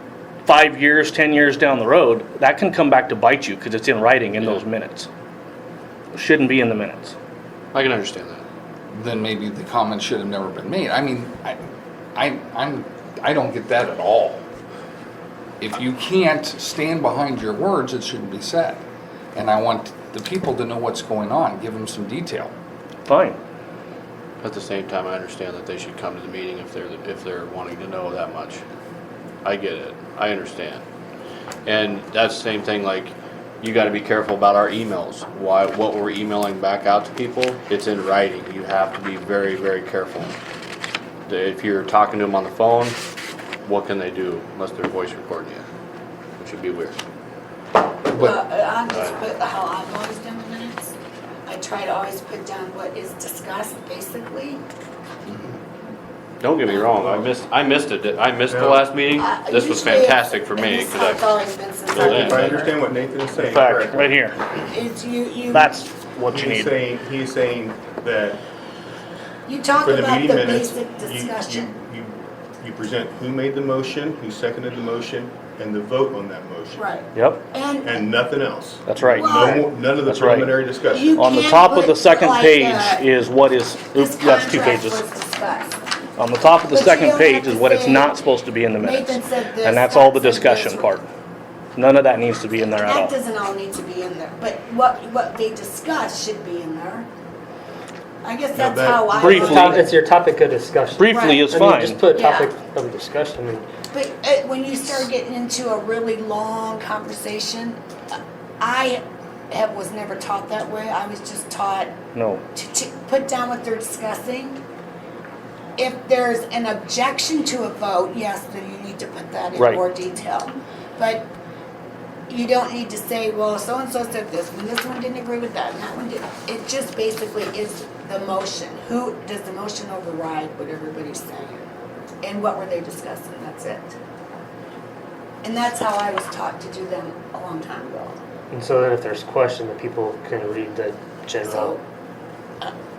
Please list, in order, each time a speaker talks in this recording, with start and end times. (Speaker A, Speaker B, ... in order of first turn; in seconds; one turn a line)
Speaker A: 0.4-5.1
Speaker A: 6.1-7.2
Speaker B: 7.7-8.4
Speaker C: 8.9-14.4
Speaker C: 15.6-18.8
Speaker C: 19.3-22.5
Speaker A: 23.1-23.4
Speaker B: 24.4-28.6
Speaker B: 29.4-30.8
Speaker B: 31.6-40.4
Speaker B: 41.3-43.0
Speaker B: 43.6-45.6
Speaker B: 46.4-47.0
Speaker C: 48.1-48.4
Speaker D: 48.1-50.9
Speaker D: 51.5-54.6
Speaker B: 56.4-61.3
Speaker E: 56.9-57.3
Speaker E: 58.5-58.8
Speaker D: 59.1-62.7
Speaker E: 61.9-64.1
Speaker B: 62.0-62.4
Speaker A: 63.3-64.4
Speaker D: 64.7-65.8
Speaker A: 65.5-66.7
Speaker E: 66.2-68.4
Speaker D: 69.5-71.7
Speaker E: 69.8-76.8
Speaker D: 76.8-78.0
Speaker A: 77.1-77.4
Speaker E: 77.8-81.2
Speaker A: 78.8-80.6
Speaker D: 79.1-79.6
Speaker D: 80.9-83.1
Speaker A: 81.2-85.0
Speaker D: 83.9-85.8
Speaker A: 86.2-91.0
Speaker D: 86.7-88.2
Speaker D: 88.8-91.0
Speaker A: 91.8-93.1
Speaker D: 92.6-97.1
Speaker D: 98.2-99.9
Speaker E: 98.5-99.5
Speaker A: 99.1-99.8
Speaker F: 99.2-103.7
Speaker A: 101.0-102.0
Speaker D: 101.1-101.5
Speaker D: 102.1-102.5
Speaker D: 103.9-107.8
Speaker D: 108.6-111.9
Speaker A: 112.1-112.4
Speaker D: 112.5-114.6
Speaker D: 115.8-121.3
Speaker A: 119.5-119.8
Speaker D: 122.3-131.7
Speaker D: 132.2-134.0
Speaker D: 135.4-138.2
Speaker F: 138.5-141.8
Speaker D: 141.4-141.8